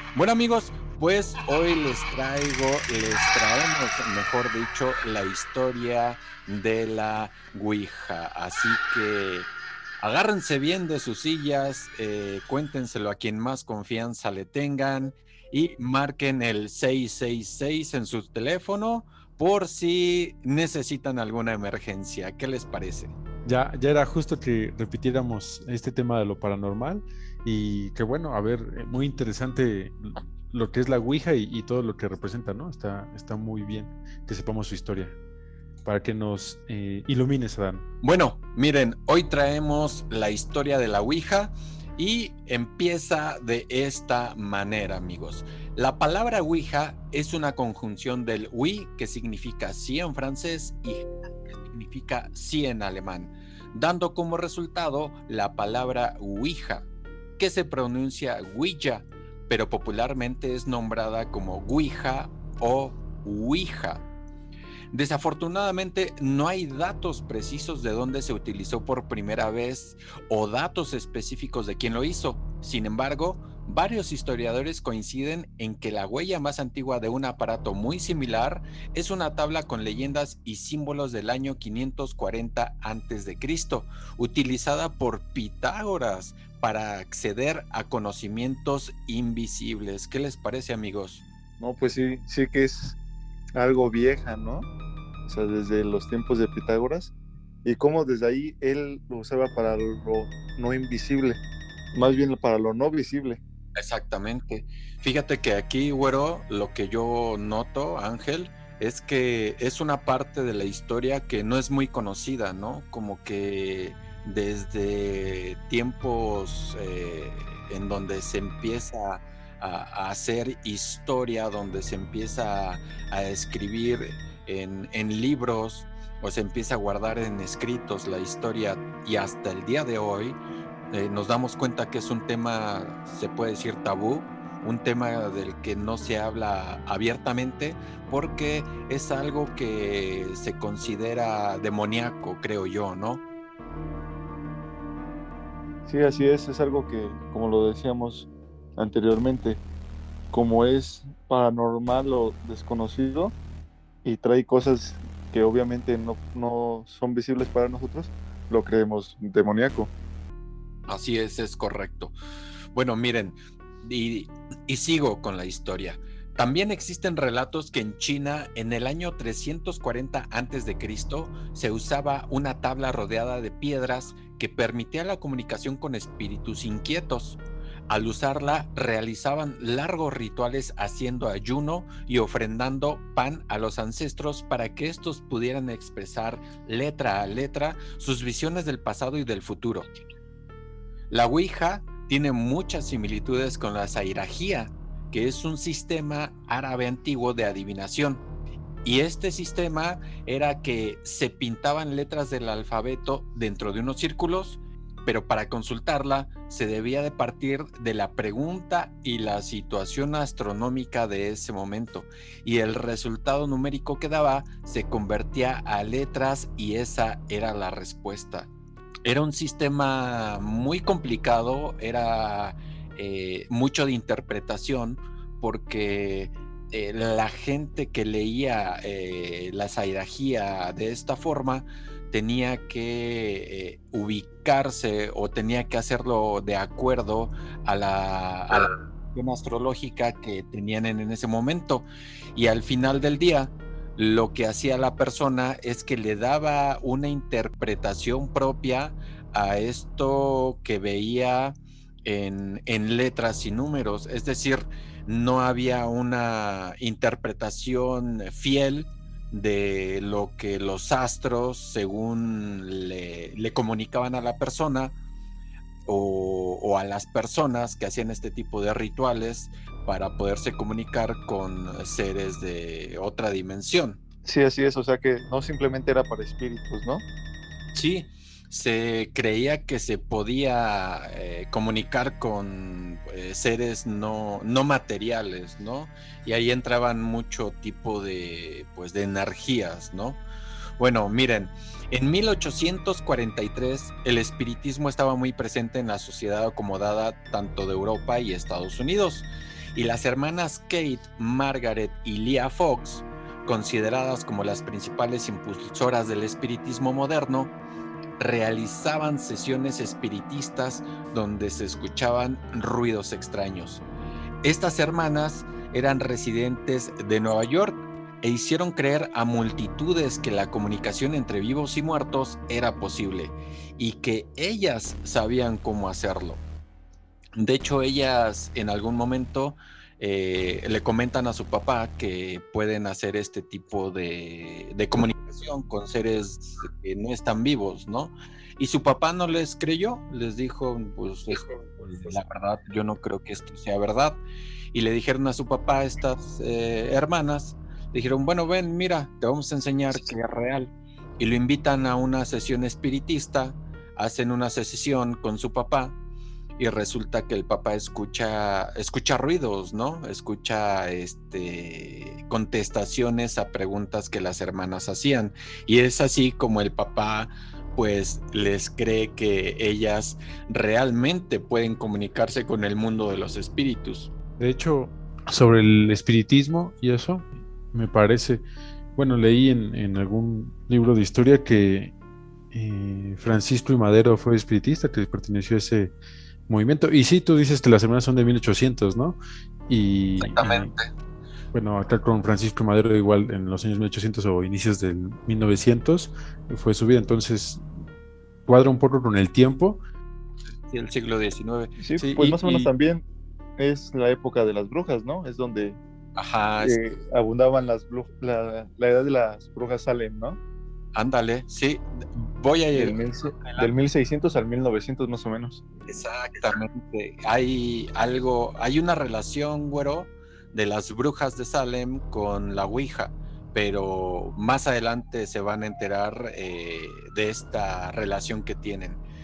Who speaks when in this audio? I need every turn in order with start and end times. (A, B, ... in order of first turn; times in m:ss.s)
0:00.2-0:09.5 A
0:10.0-0:23.1 A
0:23.4-0:35.2 B
0:35.8-0:37.8 B
0:38.0-0:56.9 A
0:57.4-1:04.0 A
1:04.9-1:31.2 A
1:31.6-1:33.0 C
1:33.6-1:34.7 C
1:35.3-1:37.1 C
1:37.6-1:41.4 C
1:41.9-1:43.4 C
1:43.8-2:10.4 A
2:10.9-2:23.2 A
2:25.9-2:29.6 C
2:30.3-2:33.3 C
2:34.0-2:39.9 C
2:40.9-2:42.1 A
2:42.8-3:09.9 A
3:11.1-3:18.2 A
3:18.8-3:38.5 A
3:39.0-4:25.0 A
4:25.9-4:34.0 A
4:34.2-4:37.0 C
4:37.7-4:50.2 A
4:50.8-5:07.5 A
5:08.2-5:13.8 A
5:14.4-5:26.4 A
5:27.4-5:44.2 A
5:44.7-5:56.0 A
5:56.6-6:14.1 A
6:14.4-6:18.4 B
6:19.0-6:21.9 B
6:22.5-6:25.9 B
6:26.5-6:30.7 B
6:30.2-6:30.9 A
6:31.5-6:37.6 B
6:38.5-6:39.8 B
6:40.6-6:41.8 A
6:41.8-6:43.0 C
6:42.0-6:42.7 B
6:43.6-6:45.8 C
6:46.2-6:46.8 A
6:46.6-6:50.4 C
6:51.0-6:53.7 A
6:52.7-6:55.6 C
6:55.9-7:09.0 A